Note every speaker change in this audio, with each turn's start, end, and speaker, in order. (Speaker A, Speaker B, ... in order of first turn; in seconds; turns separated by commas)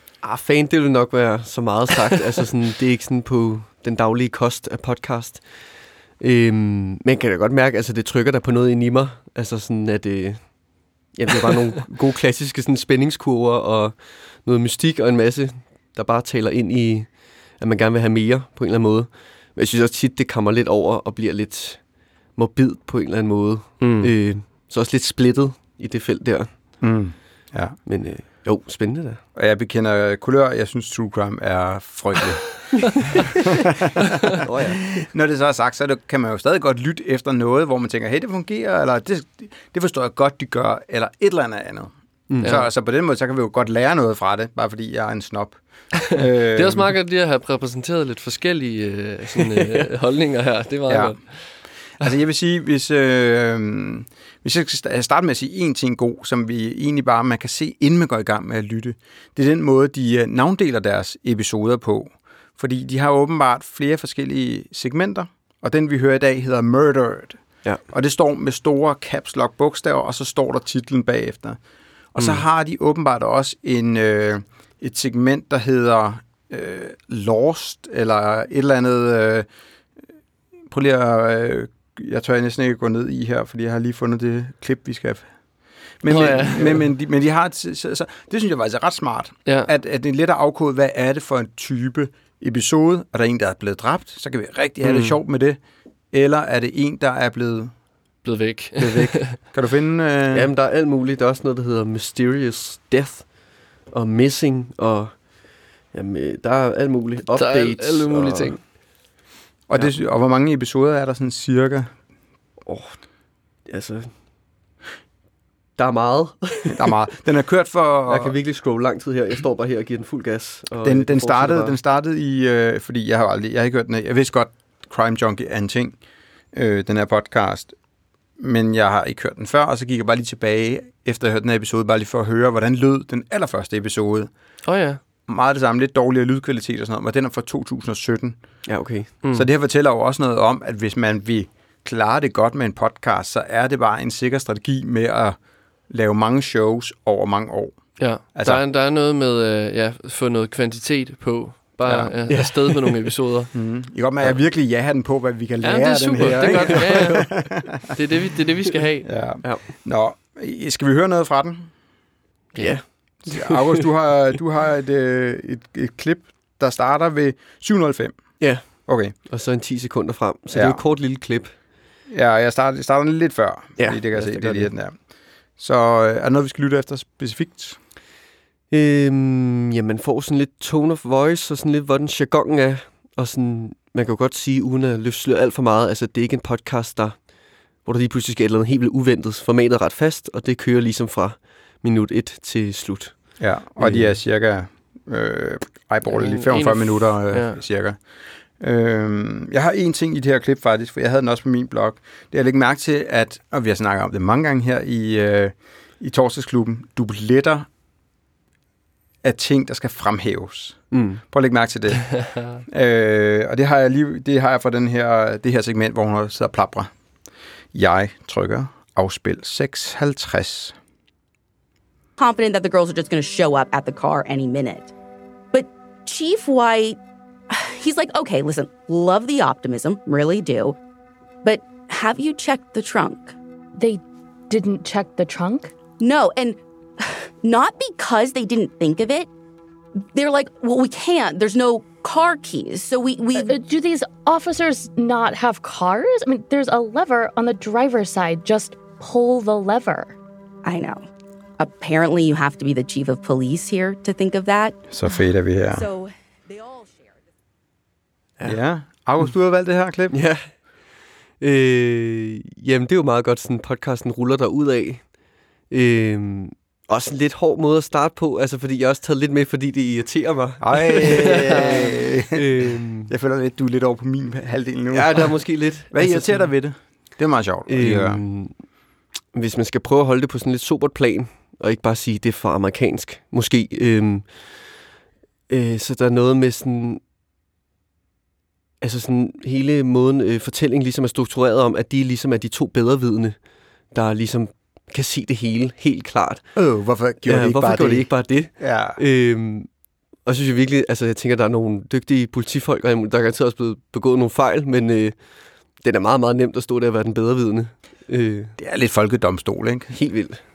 Speaker A: 0.2-26.8, Speaker B: 23.8-24.1, Speaker C: 26.8-27.8, Speaker A: 27.9-29.2, Speaker C: 29.4-46.9, Speaker A: 34.4-34.9, Speaker B: 42.4-42.7, Speaker B: 46.1-52.1, Speaker A: 49.4-49.9, Speaker C: 50.9-51.2, Speaker C: 51.9-71.6, Speaker C: 72.1-79.5, Speaker C: 80.7-85.3, Speaker C: 86.0-95.6, Speaker B: 86.1-86.8, Speaker B: 94.8-95.2, Speaker C: 96.1-97.7, Speaker B: 98.2-99.3, Speaker C: 98.8-100.5, Speaker A: 100.3-108.7, Speaker B: 107.3-108.7, Speaker C: 109.7-111.9, Speaker A: 112.7-114.2, Speaker A: 115.8-116.9, Speaker C: 116.7-118.4, Speaker A: 118.1-121.8, Speaker C: 120.8-126.0, Speaker C: 126.5-127.8, Speaker C: 128.4-134.3, Speaker B: 134.7-135.0, Speaker C: 135.3-138.4, Speaker A: 138.7-139.1, Speaker B: 139.2-139.5, Speaker C: 139.3-145.4, Speaker C: 145.9-148.6, Speaker B: 148.0-153.5, Speaker C: 151.8-152.1, Speaker A: 152.3-153.1, Speaker C: 153.5-157.9, Speaker B: 155.6-159.1, Speaker A: 156.4-157.3, Speaker C: 159.0-161.7, Speaker A: 159.4-159.7, Speaker B: 162.6-162.9, Speaker A: 162.6-163.9, Speaker C: 163.2-169.2, Speaker A: 168.4-171.5, Speaker C: 170.5-170.8, Speaker C: 172.1-175.1, Speaker A: 173.8-174.7, Speaker B: 174.1-174.6, Speaker C: 175.6-177.8, Speaker A: 178.7-194.2, Speaker C: 193.4-207.7, Speaker B: 196.1-197.6, Speaker C: 209.2-216.9, Speaker A: 210.9-211.2, Speaker C: 217.7-220.8, Speaker D: 222.2-224.9, Speaker D: 225.5-227.0, Speaker D: 227.5-230.8, Speaker D: 231.4-233.4, Speaker E: 233.8-235.7, Speaker D: 236.0-239.3, Speaker D: 240.2-243.5, Speaker E: 243.3-250.2, Speaker D: 250.7-251.1, Speaker D: 251.6-254.9, Speaker C: 254.9-255.9, Speaker D: 255.7-257.1, Speaker C: 258.4-260.3, Speaker A: 260.1-273.1, Speaker C: 270.6-278.2, Speaker A: 274.9-276.5, Speaker A: 277.7-278.6, Speaker A: 279.3-284.6, Speaker A: 285.5-287.0, Speaker A: 288.8-296.5, Speaker C: 296.6-299.0, Speaker A: 297.2-308.6, Speaker C: 308.6-309.9, Speaker A: 309.9-310.4